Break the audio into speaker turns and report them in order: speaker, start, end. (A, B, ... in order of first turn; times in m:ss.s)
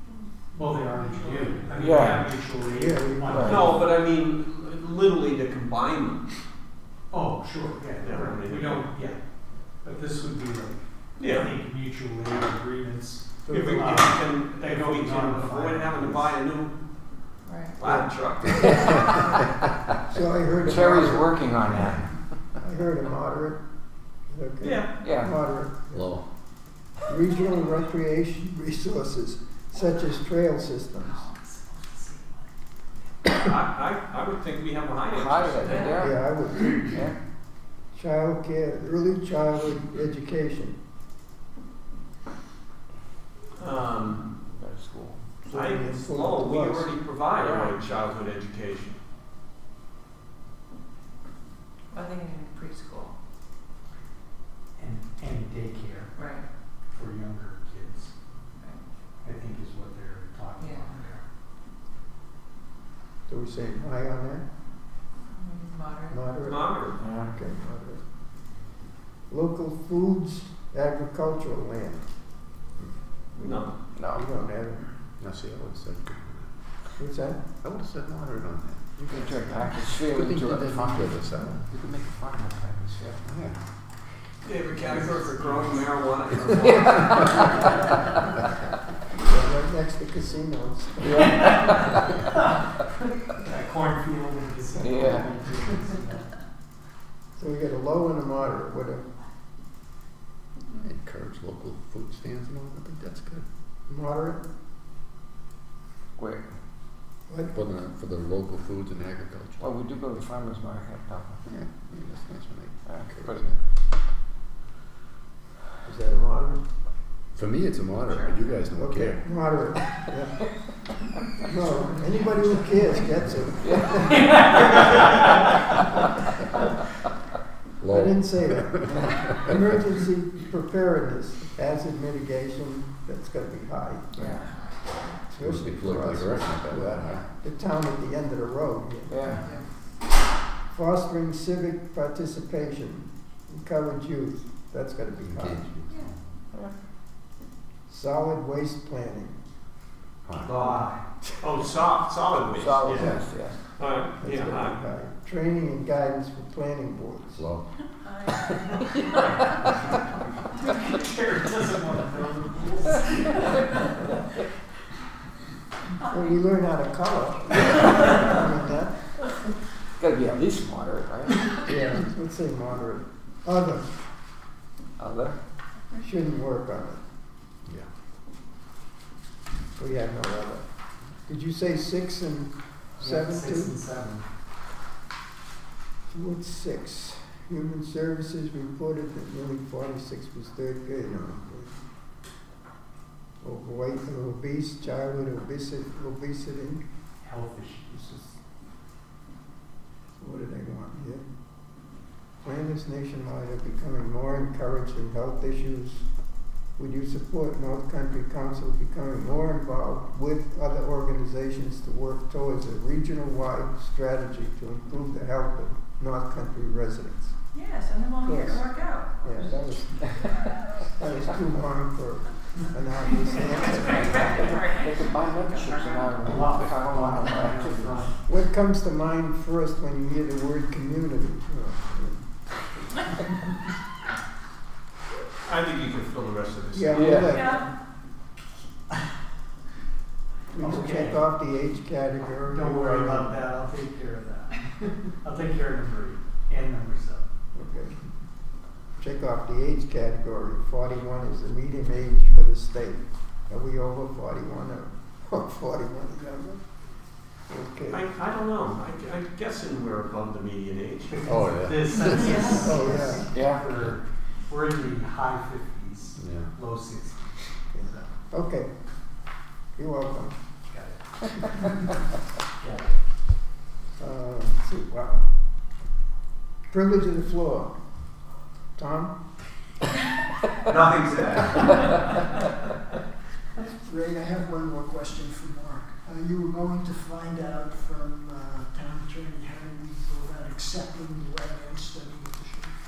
0:00.6-0:03.5 A
0:01.8-0:02.3 B
0:01.8-0:02.3 C
0:02.7-0:03.8 D
0:03.3-0:03.6 B
0:03.4-0:06.3 C
0:07.1-0:09.2 A
0:08.0-0:09.0 C
0:09.8-0:10.8 A
0:11.2-0:11.5 C
0:11.4-0:16.3 A
0:13.5-0:13.9 D
0:13.5-0:16.8 C
0:17.5-0:17.8 E
0:17.8-0:18.9 C
0:17.8-0:18.8 D
0:20.0-0:22.0 D
0:20.6-0:22.6 B
0:22.6-0:23.6 D
0:24.3-0:26.1 D
0:24.6-0:24.9 C
0:25.0-0:25.4 B
0:25.9-0:26.3 F
0:27.1-0:31.3 D
0:33.2-0:36.1 C
0:35.1-0:36.3 B
0:35.7-0:36.2 E
0:35.9-0:37.1 D
0:36.8-0:37.2 B
0:37.9-0:40.8 D
0:43.6-0:44.3 C
0:44.6-0:45.2 B
0:45.4-0:47.0 D
0:45.5-0:49.0 C
0:47.4-0:47.7 B
0:51.9-0:53.1 E
0:54.8-0:56.2 A
0:56.2-0:56.4 E
0:56.9-0:58.1 A
0:59.2-1:01.2 A
1:00.6-1:01.0 E
1:03.3-1:04.4 D
1:05.3-1:06.3 E
1:06.1-1:08.0 D
1:06.4-1:07.0 C
1:07.0-1:07.4 B
1:09.3-1:12.1 D
1:13.4-1:14.8 D
1:13.4-1:13.7 C
1:14.0-1:14.3 B
1:15.2-1:16.5 F
1:17.0-1:17.4 D
1:17.6-1:21.7 F
1:19.0-1:23.3 B
1:23.3-1:23.6 F
1:24.4-1:27.7 C
1:26.6-1:27.6 B
1:29.2-1:31.9 D
1:31.0-1:32.2 B
1:33.4-1:36.2 A
1:34.8-1:35.3 B
1:37.4-1:39.0 D
1:40.7-1:43.4 F
1:43.9-1:44.4 D
1:46.2-1:46.5 B
1:47.3-1:47.6 D
1:47.5-1:49.7 F
1:49.6-1:51.4 B
1:51.5-1:53.6 F
1:52.9-1:53.5 B
1:55.8-1:56.6 D
1:57.4-1:59.3 F
1:58.8-2:00.4 D
2:01.4-2:05.0 D
2:03.6-2:04.5 B
2:04.4-2:04.8 A
2:07.8-2:09.6 F
2:07.9-2:14.4 D
2:14.2-2:15.1 E
2:15.2-2:19.2 D
2:15.4-2:17.3 F
2:19.1-2:19.4 B
2:19.2-2:19.7 E
2:20.7-2:25.7 D
2:25.2-2:26.2 F
2:27.9-2:29.3 D
2:30.2-2:30.6 F
2:30.5-2:30.9 C
2:31.4-2:33.2 C
2:32.6-2:33.6 B
2:33.8-2:34.8 C
2:34.2-2:37.4 D
2:37.4-2:37.7 F
2:38.2-2:39.2 E
2:39.0-2:39.7 B
2:40.8-2:43.9 A
2:46.0-2:49.0 D
2:50.0-2:52.0 B
2:51.9-2:54.0 D
2:55.0-2:55.4 B
2:56.0-2:57.0 D
2:59.8-3:00.6 D
3:01.3-3:03.8 D
3:03.0-3:04.2 A
3:06.1-3:11.7 D
3:13.4-3:16.8 D
3:17.2-3:18.4 A
3:20.2-3:21.2 D
3:22.4-3:26.0 D
3:26.8-3:37.3 D
3:37.5-3:39.6 E
3:38.2-3:40.2 D
3:40.1-3:40.5 B
3:41.0-3:44.6 D
3:43.8-3:46.1 E
3:44.5-3:48.0 B
3:46.2-3:48.1 A
3:48.2-3:52.3 D
3:55.4-3:57.4 C
3:56.7-3:57.7 D
3:56.9-3:57.4 B
3:57.3-3:57.7 E
4:00.5-4:03.4 D
4:00.6-4:01.2 A
4:02.5-4:07.2 A
4:07.5-4:08.0 D
4:09.0-4:16.6 D
4:17.5-4:18.0 D
4:17.9-4:21.2 C
4:21.1-4:28.1 A
4:21.2-4:22.6 F
4:22.5-4:23.3 D
4:23.3-4:23.6 B
4:26.2-4:26.5 F
4:27.7-4:28.7 D
4:29.8-4:30.4 D
4:30.7-4:31.0 A
4:32.6-4:32.9 A
4:34.0-4:35.3 D
4:36.7-4:37.8 D
4:38.8-4:39.1 D
4:40.7-4:41.8 C
4:43.6-4:52.7 G